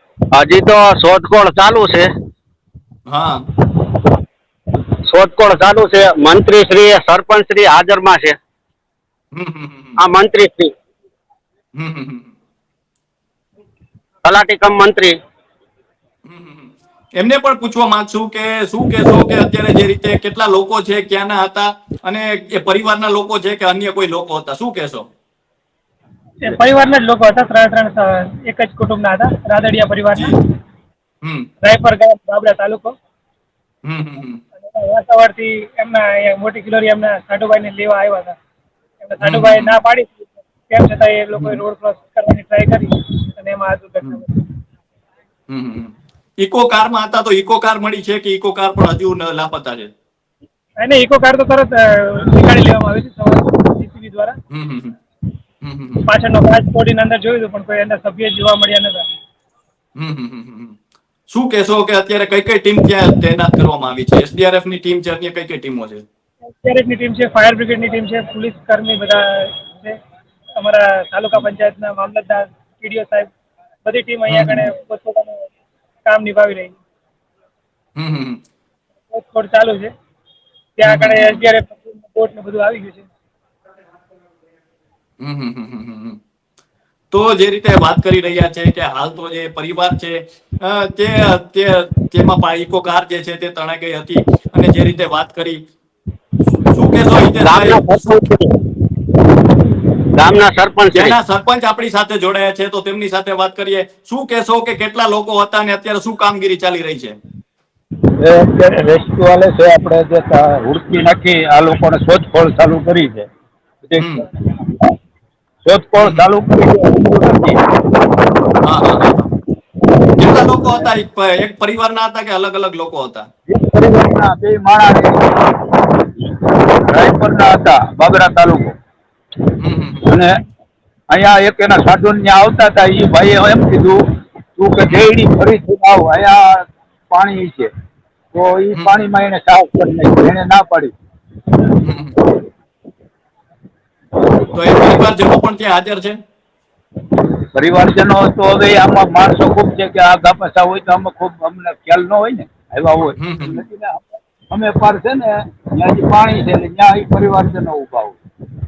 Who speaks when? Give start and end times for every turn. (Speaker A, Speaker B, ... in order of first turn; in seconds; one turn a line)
Speaker A: 0.3-2.1
Speaker B: 3.1-3.5
Speaker A: 5.1-8.4
Speaker B: 9.3-10.0
Speaker A: 10.0-10.7
Speaker B: 11.8-12.3
Speaker A: 14.2-15.2
Speaker B: 16.2-25.1
Speaker C: 26.4-30.3
Speaker B: 31.2-31.5
Speaker C: 31.6-33.0
Speaker B: 33.9-34.4
Speaker C: 34.6-38.4
Speaker C: 39.0-44.4
Speaker B: 39.2-39.8
Speaker B: 41.4-41.6
Speaker B: 45.5-49.9
Speaker C: 50.8-54.4
Speaker B: 54.5-55.0
Speaker B: 55.6-56.1
Speaker C: 56.1-59.1
Speaker B: 60.0-60.8
Speaker B: 61.3-66.0
Speaker C: 66.5-70.0
Speaker C: 70.6-73.3
Speaker C: 73.8-75.5
Speaker B: 74.3-74.7
Speaker C: 76.0-76.8
Speaker B: 78.0-78.4
Speaker C: 79.1-79.9
Speaker C: 80.8-83.1
Speaker B: 80.8-81.5
Speaker B: 85.2-86.2
Speaker B: 87.1-95.6
Speaker B: 96.7-98.1
Speaker A: 97.3-98.6
Speaker A: 100.2-101.2
Speaker B: 100.9-107.2
Speaker D: 108.2-113.3
Speaker D: 113.8-114.8
Speaker B: 114.0-114.2
Speaker D: 115.6-117.6
Speaker B: 116.0-116.3
Speaker B: 118.6-119.3
Speaker B: 120.2-123.3
Speaker D: 120.5-120.9
Speaker D: 123.5-125.5
Speaker D: 126.9-128.7
Speaker B: 129.6-130.2
Speaker D: 130.1-130.4
Speaker D: 131.1-134.0
Speaker D: 134.6-137.7
Speaker D: 138.3-140.9
Speaker B: 138.7-139.1
Speaker B: 141.8-142.2
Speaker B: 144.5-146.2
Speaker D: 147.6-158.2
Speaker B: 153.2-153.7